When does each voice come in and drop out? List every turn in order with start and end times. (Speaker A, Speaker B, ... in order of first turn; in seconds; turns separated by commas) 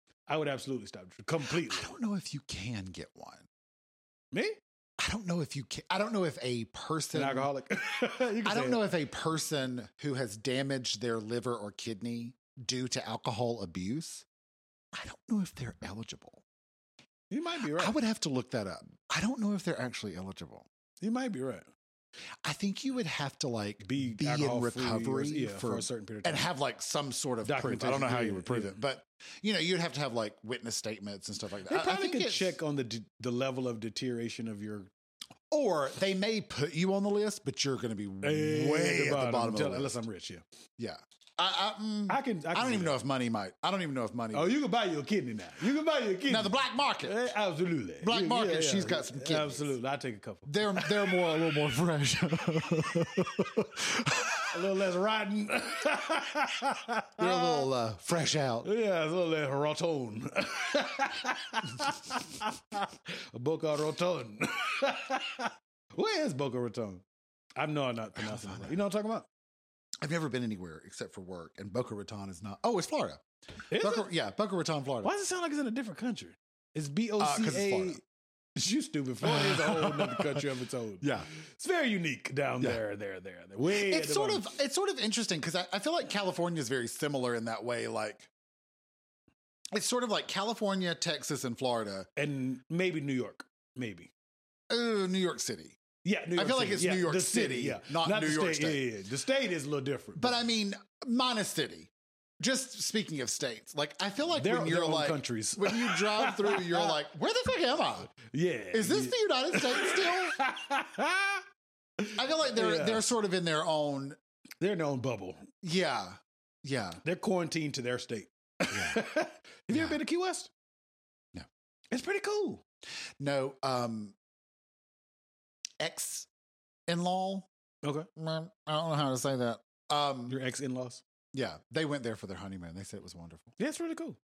Speaker A: 0.3-1.9, Speaker B: 1.4-3.5, Speaker A: 4.3-4.6, Speaker B: 5.0-7.5, Speaker A: 7.1-8.9, Speaker B: 8.4-14.2, Speaker B: 14.9-16.4, Speaker A: 17.3-18.0, Speaker B: 17.8-20.6, Speaker A: 21.0-21.7, Speaker B: 22.4-32.5, Speaker A: 23.8-26.4, Speaker A: 27.4-28.8, Speaker A: 31.7-34.9, Speaker B: 35.5-40.0, Speaker A: 38.2-40.4, Speaker B: 40.8-44.6, Speaker A: 42.1-43.0, Speaker A: 44.3-51.3, Speaker B: 46.3-47.2, Speaker B: 48.0-49.7, Speaker B: 50.5-54.6, Speaker A: 54.5-57.7, Speaker B: 57.2-58.7, Speaker A: 58.6-67.0, Speaker A: 67.5-69.3, Speaker B: 68.2-68.7, Speaker B: 70.0-73.2, Speaker A: 73.7-74.1, Speaker B: 73.8-75.1, Speaker A: 75.0-78.0, Speaker B: 77.2-78.0, Speaker A: 78.6-84.5, Speaker B: 79.2-80.5, Speaker B: 81.0-81.3, Speaker B: 83.7-88.3, Speaker B: 89.7-92.1, Speaker A: 92.2-94.1, Speaker B: 94.7-95.8, Speaker A: 96.0-100.4, Speaker B: 96.3-98.8, Speaker B: 100.2-108.1, Speaker A: 104.4-106.9, Speaker A: 108.2-111.4, Speaker B: 108.7-110.4, Speaker A: 112.0-113.0, Speaker B: 112.1-114.2, Speaker A: 114.6-115.4, Speaker B: 115.6-117.0, Speaker A: 117.0-120.5, Speaker B: 118.7-119.0, Speaker A: 121.9-122.6, Speaker B: 123.2-124.2, Speaker B: 125.8-126.3, Speaker B: 126.9-127.5, Speaker A: 127.8-128.1, Speaker B: 128.2-130.4, Speaker A: 130.3-131.0, Speaker B: 131.3-133.6, Speaker A: 133.6-134.2